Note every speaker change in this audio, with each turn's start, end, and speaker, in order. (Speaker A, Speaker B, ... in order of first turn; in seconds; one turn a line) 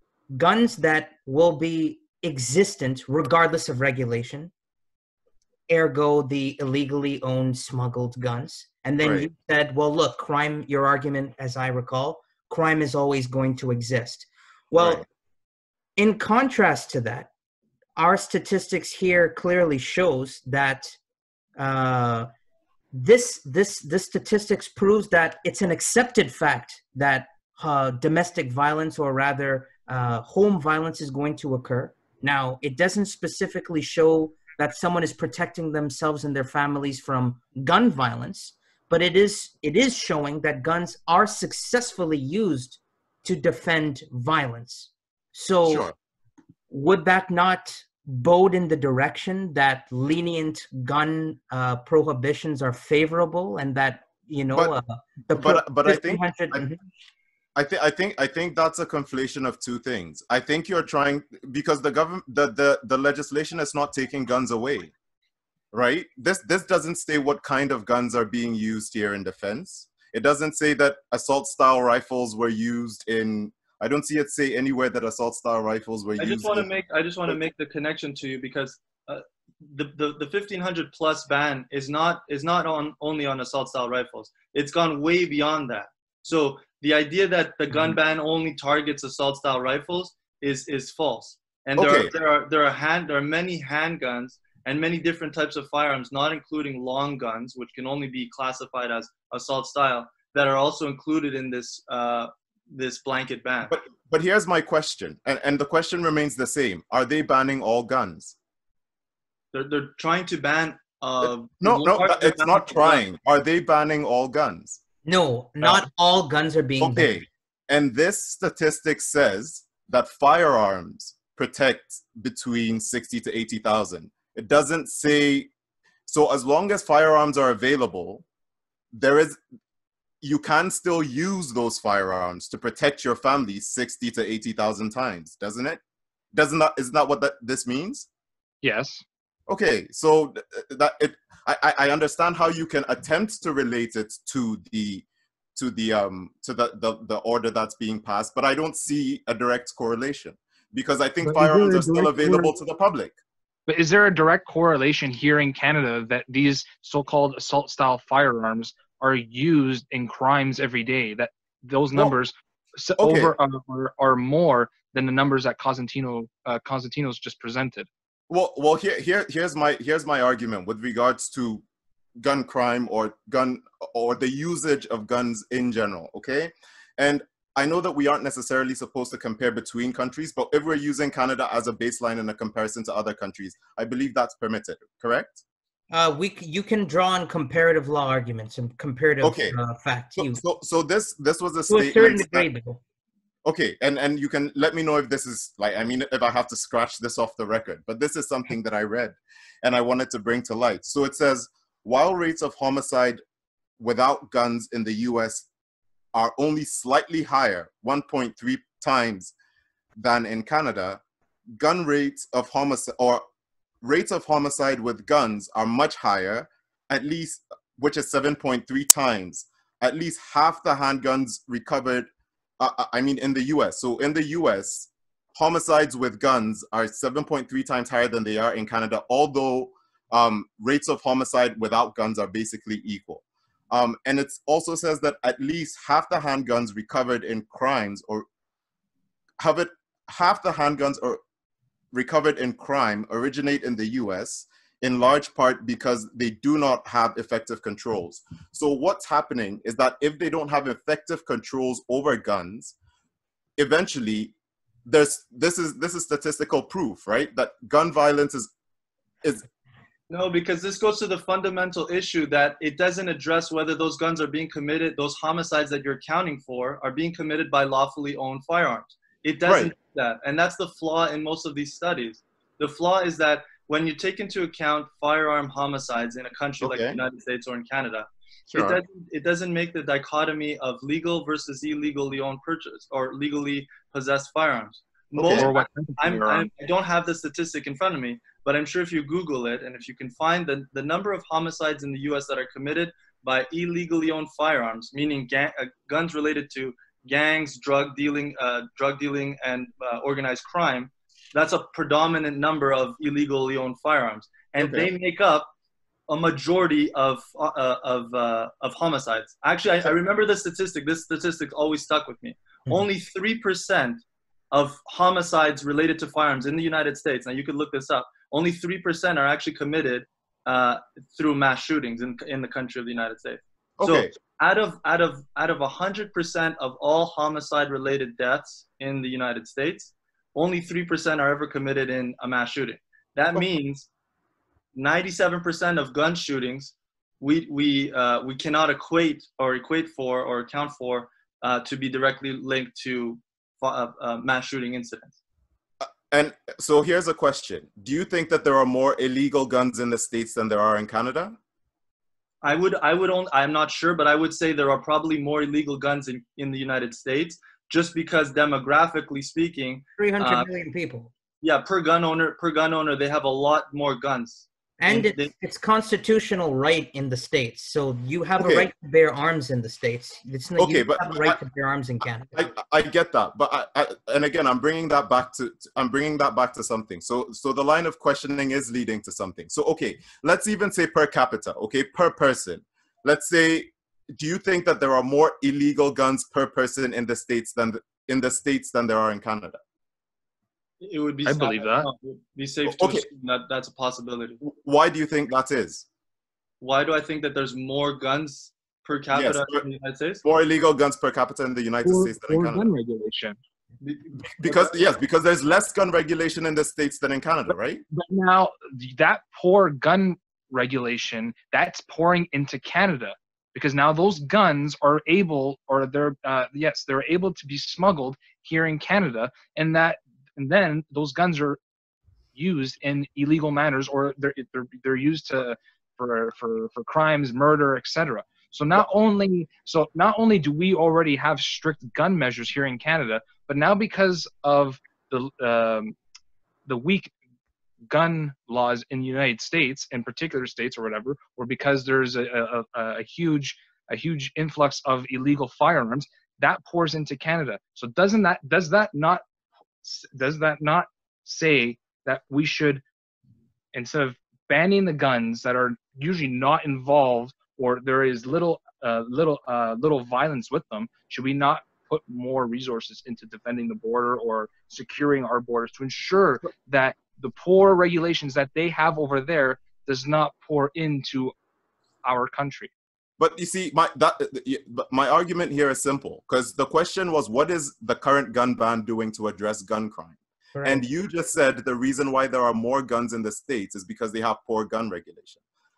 Speaker A: 0.3-4.5
Speaker A: 5.7-15.0
Speaker B: 9.0-9.3
Speaker B: 14.8-15.1
Speaker A: 16.0-17.3
Speaker A: 18.0-21.0
Speaker A: 21.6-22.3
Speaker A: 22.9-45.9
Speaker B: 45.7-45.9
Speaker A: 46.7-56.8
Speaker B: 55.3-56.7
Speaker B: 57.6-64.9
Speaker B: 65.7-76.7
Speaker C: 76.2-103.7
Speaker B: 91.8-92.1
Speaker B: 103.7-108.3
Speaker C: 109.5-113.0
Speaker B: 111.2-114.8
Speaker A: 115.0-117.2
Speaker B: 116.8-125.5
Speaker B: 126.1-128.2
Speaker B: 128.9-129.4
Speaker B: 130.2-135.8
Speaker B: 136.3-138.1
Speaker D: 138.6-139.0
Speaker B: 139.5-153.1
Speaker D: 151.2-152.5
Speaker D: 153.7-167.9
Speaker B: 163.0-163.3
Speaker B: 168.3-171.6
Speaker B: 172.2-185.4
Speaker A: 185.9-190.4
Speaker B: 189.2-189.6
Speaker B: 190.2-192.5
Speaker A: 191.7-192.8
Speaker B: 193.4-203.2
Speaker B: 203.8-205.5
Speaker B: 206.1-209.3
Speaker B: 210.0-211.0
Speaker B: 211.6-213.2
Speaker B: 213.8-222.1
Speaker B: 222.6-238.3
Speaker B: 239.4-241.2
Speaker B: 241.9-252.8
Speaker B: 253.6-254.3
Speaker B: 254.9-258.5
Speaker C: 260.1-305.5
Speaker B: 269.4-269.7
Speaker B: 276.6-277.0
Speaker B: 278.5-278.8
Speaker B: 285.1-285.5
Speaker D: 285.3-286.5
Speaker B: 304.6-304.9
Speaker C: 306.1-333.9
Speaker B: 323.8-324.1
Speaker C: 334.8-345.2
Speaker B: 345.8-351.4
Speaker C: 352.4-360.5
Speaker A: 360.0-361.1
Speaker C: 361.4-365.3
Speaker A: 364.8-372.5
Speaker B: 368.4-368.7
Speaker B: 370.6-371.4
Speaker B: 372.3-389.6
Speaker C: 390.8-394.4
Speaker D: 391.2-391.9
Speaker B: 392.6-393.1
Speaker B: 394.4-395.9
Speaker C: 396.6-400.2
Speaker B: 399.1-399.6
Speaker B: 400.2-402.7
Speaker D: 401.9-403.4
Speaker C: 403.8-404.7
Speaker B: 404.4-407.8
Speaker D: 407.9-421.6
Speaker D: 422.4-436.0
Speaker D: 436.6-437.1
Speaker D: 437.9-449.2
Speaker D: 449.8-452.8
Speaker D: 453.7-471.3
Speaker D: 472.0-472.7
Speaker B: 473.2-485.4
Speaker A: 480.5-480.9